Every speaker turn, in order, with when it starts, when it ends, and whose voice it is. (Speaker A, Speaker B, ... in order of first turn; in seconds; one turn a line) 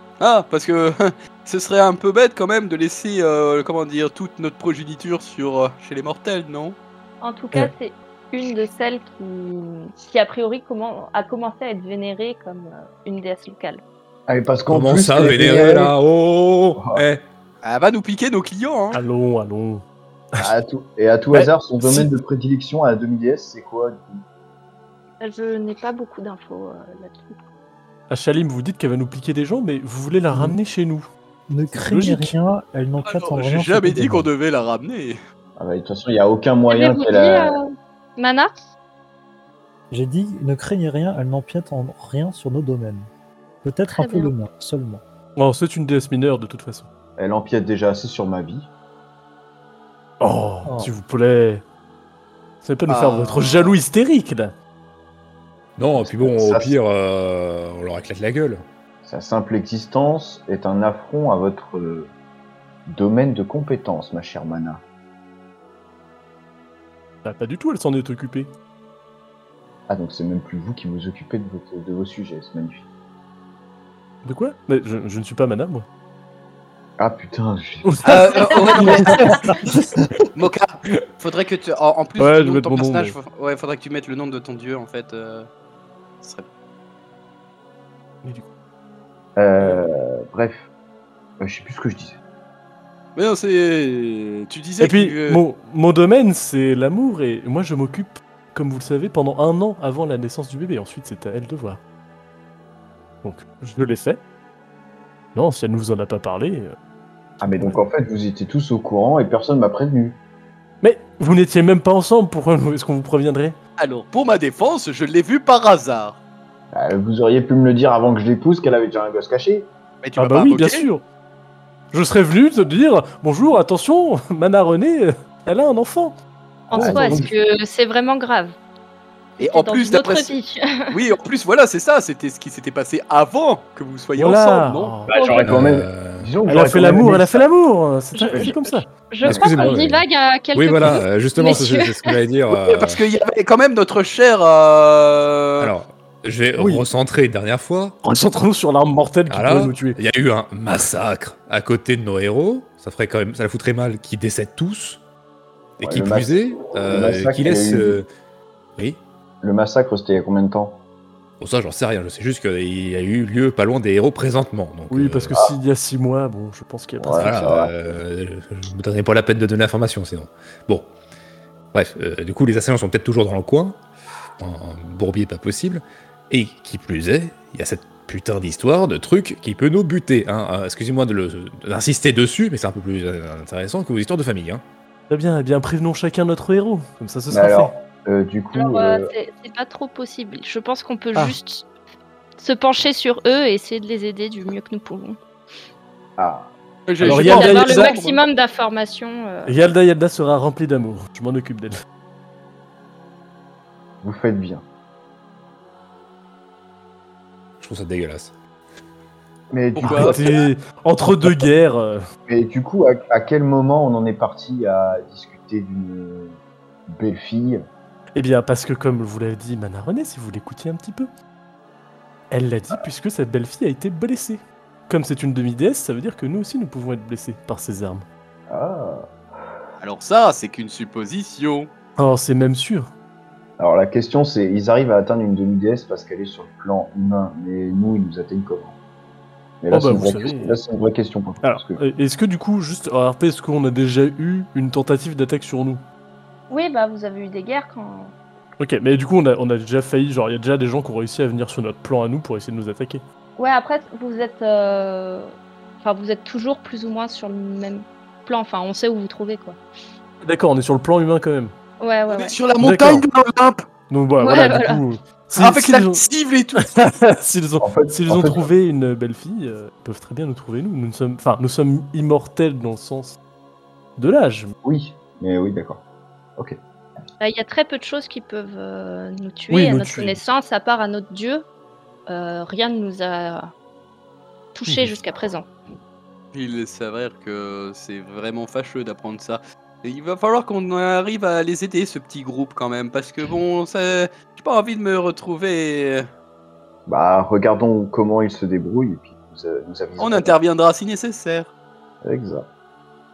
Speaker A: 0.2-6.8
Speaker B: 7.2-13.8
Speaker C: 14.3-15.9
Speaker D: 14.7-17.2
Speaker A: 17.6-19.0
Speaker E: 18.9-19.8
Speaker C: 20.4-24.2
Speaker E: 21.3-22.1
Speaker B: 25.2-27.4
Speaker E: 28.1-31.1
Speaker F: 30.3-30.6
Speaker F: 31.5-34.3
Speaker E: 31.7-32.3
Speaker A: 33.0-35.2
Speaker C: 35.6-37.6
Speaker B: 36.7-38.5
Speaker F: 39.9-43.1
Speaker F: 43.6-45.0
Speaker B: 43.9-44.3
Speaker E: 45.4-46.9
Speaker C: 47.2-48.7
Speaker E: 50.2-51.6
Speaker F: 50.7-50.9
Speaker E: 52.6-54.5
Speaker A: 52.9-53.8
Speaker D: 55.8-58.6
Speaker C: 56.0-56.8
Speaker C: 59.0-62.1
Speaker C: 62.9-64.8
Speaker E: 67.2-68.5
Speaker C: 69.9-72.9
Speaker E: 74.2-75.9
Speaker C: 77.0-78.1
Speaker E: 77.8-78.1
Speaker A: 78.0-79.5
Speaker B: 78.3-79.4
Speaker C: 78.8-79.1
Speaker E: 78.8-79.4
Speaker A: 80.3-85.5
Speaker E: 82.2-83.2
Speaker C: 89.4-90.7
Speaker C: 91.4-92.2
Speaker A: 93.2-95.4
Speaker E: 94.8-101.8
Speaker E: 103.2-104.2
Speaker E: 105.3-106.7
Speaker C: 107.4-110.2
Speaker E: 107.4-107.8
Speaker E: 110.8-113.6
Speaker A: 113.8-116.2
Speaker C: 116.7-119.7
Speaker A: 120.0-120.9
Speaker E: 120.2-121.0
Speaker E: 121.9-126.2
Speaker C: 126.7-127.3
Speaker B: 126.7-128.6
Speaker E: 126.8-127.2
Speaker B: 129.4-130.9
Speaker A: 129.4-130.4
Speaker A: 130.9-135.0
Speaker E: 134.2-135.1
Speaker C: 135.1-137.5
Speaker B: 135.1-135.5
Speaker D: 135.4-136.4
Speaker E: 136.4-138.9
Speaker B: 138.2-142.1
Speaker D: 139.2-143.0
Speaker C: 139.2-139.6
Speaker A: 142.5-145.7
Speaker D: 145.6-148.0
Speaker F: 146.6-146.8
Speaker E: 148.0-150.0
Speaker D: 149.3-155.0
Speaker D: 155.8-158.1
Speaker C: 155.8-158.0
Speaker C: 159.4-160.8
Speaker D: 161.4-165.3
Speaker E: 164.9-167.5
Speaker C: 167.0-167.7
Speaker D: 167.2-170.9
Speaker D: 171.7-173.8
Speaker D: 174.4-184.6
Speaker E: 185.1-187.7
Speaker C: 187.3-189.1
Speaker B: 188.5-191.7
Speaker B: 192.4-195.2
Speaker C: 196.2-196.5
Speaker A: 196.9-198.2
Speaker E: 197.0-198.0
Speaker B: 197.0-199.6
Speaker E: 199.5-201.8
Speaker C: 204.0-204.6
Speaker D: 207.6-208.3
Speaker C: 209.5-210.5
Speaker A: 209.8-210.2
Speaker E: 209.8-212.0
Speaker C: 212.3-217.7
Speaker E: 218.2-221.1
Speaker E: 222.3-228.1
Speaker C: 228.5-229.1
Speaker A: 229.8-231.7
Speaker E: 232.0-232.9
Speaker C: 233.6-238.8
Speaker C: 239.6-241.8
Speaker E: 239.7-240.6
Speaker E: 241.4-245.8
Speaker B: 246.5-248.2
Speaker E: 248.6-253.0
Speaker B: 253.4-259.6
Speaker E: 260.2-261.5
Speaker B: 261.8-262.4
Speaker A: 262.1-263.7
Speaker E: 262.6-263.1
Speaker E: 263.9-266.0
Speaker B: 264.2-264.8
Speaker A: 265.4-266.7
Speaker E: 266.6-273.2
Speaker C: 267.6-268.5
Speaker E: 274.0-274.5
Speaker C: 274.6-275.8
Speaker B: 277.2-281.5
Speaker E: 279.5-280.2
Speaker B: 282.1-283.5
Speaker B: 284.6-285.5
Speaker A: 286.3-296.1
Speaker C: 296.9-300.4
Speaker A: 300.0-301.5
Speaker C: 302.0-302.5